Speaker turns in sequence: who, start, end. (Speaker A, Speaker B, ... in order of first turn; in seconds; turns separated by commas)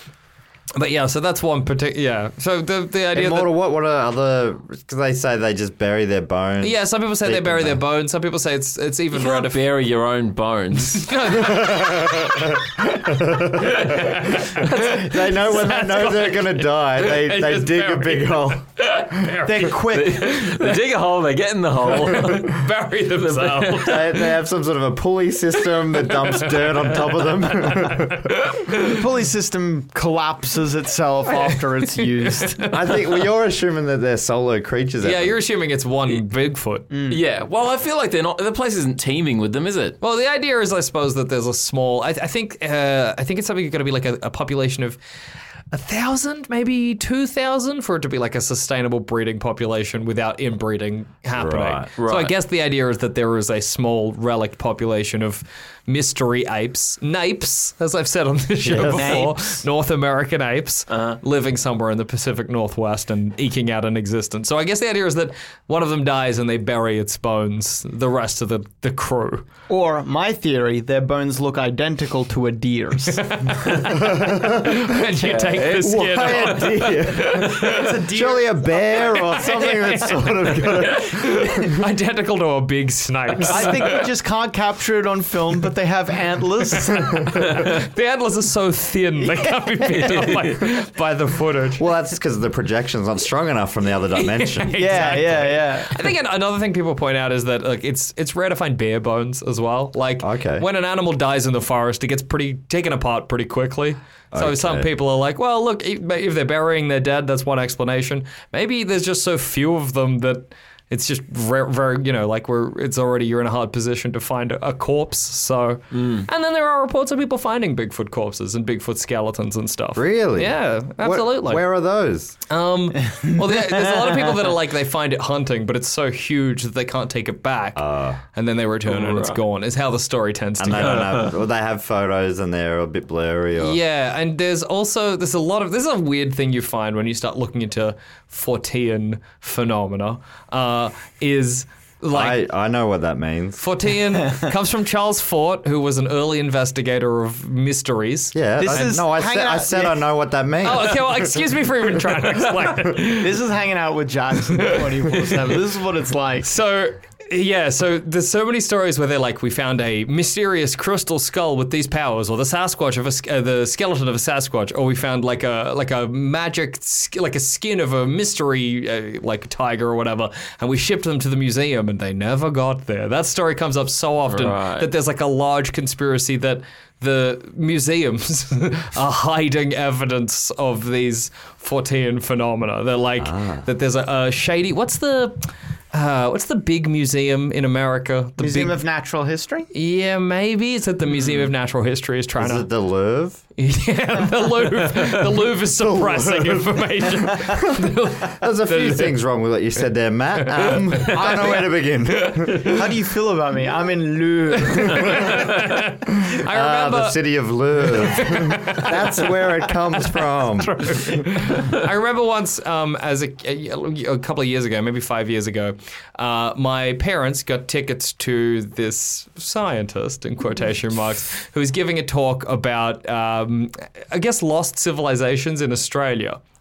Speaker A: 0.8-3.5, Speaker B: 3.1-7.8, Speaker A: 6.6-9.6, Speaker C: 9.1-11.2, Speaker A: 11.0-12.2, Speaker B: 11.4-18.6, Speaker A: 13.8-19.7, Speaker D: 19.4-20.5, Speaker C: 19.9-22.6, Speaker A: 20.3-20.6, Speaker A: 21.9-24.3, Speaker C: 23.2-24.1, Speaker B: 23.9-28.3, Speaker A: 26.6-28.9, Speaker D: 28.8-32.7, Speaker A: 32.2-32.8, Speaker B: 32.7-35.4, Speaker A: 35.0-36.9, Speaker D: 36.9-37.2, Speaker C: 37.1-40.0, Speaker A: 40.0-45.0, Speaker A: 45.7-69.5, Speaker B: 51.4-51.9, Speaker C: 52.0-52.3, Speaker B: 58.6-59.3, Speaker D: 58.7-59.4, Speaker C: 60.9-61.2, Speaker D: 69.7-73.3, Speaker A: 73.2-77.4, Speaker B: 74.2-74.8, Speaker C: 75.2-77.5, Speaker B: 75.8-81.5, Speaker D: 77.6-79.7, Speaker A: 79.7-80.0, Speaker A: 80.7-84.0, Speaker D: 83.5-87.5, Speaker A: 87.3-91.8, Speaker D: 89.2-90.4, Speaker B: 91.8-95.5, Speaker A: 94.2-121.6, Speaker D: 94.8-96.1, Speaker B: 100.2-100.7, Speaker B: 104.3-104.9, Speaker C: 115.9-116.3, Speaker B: 120.0-122.4, Speaker A: 122.5-127.8, Speaker D: 123.5-124.1, Speaker B: 127.8-128.2, Speaker A: 128.3-131.3, Speaker C: 128.9-129.4, Speaker B: 130.6-133.8, Speaker C: 130.8-131.3, Speaker A: 133.6-142.4, Speaker B: 142.1-143.6, Speaker A: 143.6-148.9, Speaker B: 148.3-151.3, Speaker D: 148.6-150.0, Speaker A: 150.6-153.4, Speaker D: 153.2-156.5, Speaker A: 154.6-155.3, Speaker A: 156.4-188.8, Speaker C: 174.3-174.9, Speaker B: 183.2-183.7, Speaker D: 188.4-189.7, Speaker A: 189.7-192.7, Speaker B: 192.4-193.4, Speaker A: 193.6-199.2, Speaker B: 195.8-202.8, Speaker A: 200.6-201.2, Speaker D: 201.1-201.6, Speaker D: 202.6-205.5, Speaker A: 204.7-207.2, Speaker B: 206.5-211.2, Speaker A: 207.8-209.3, Speaker A: 210.6-226.4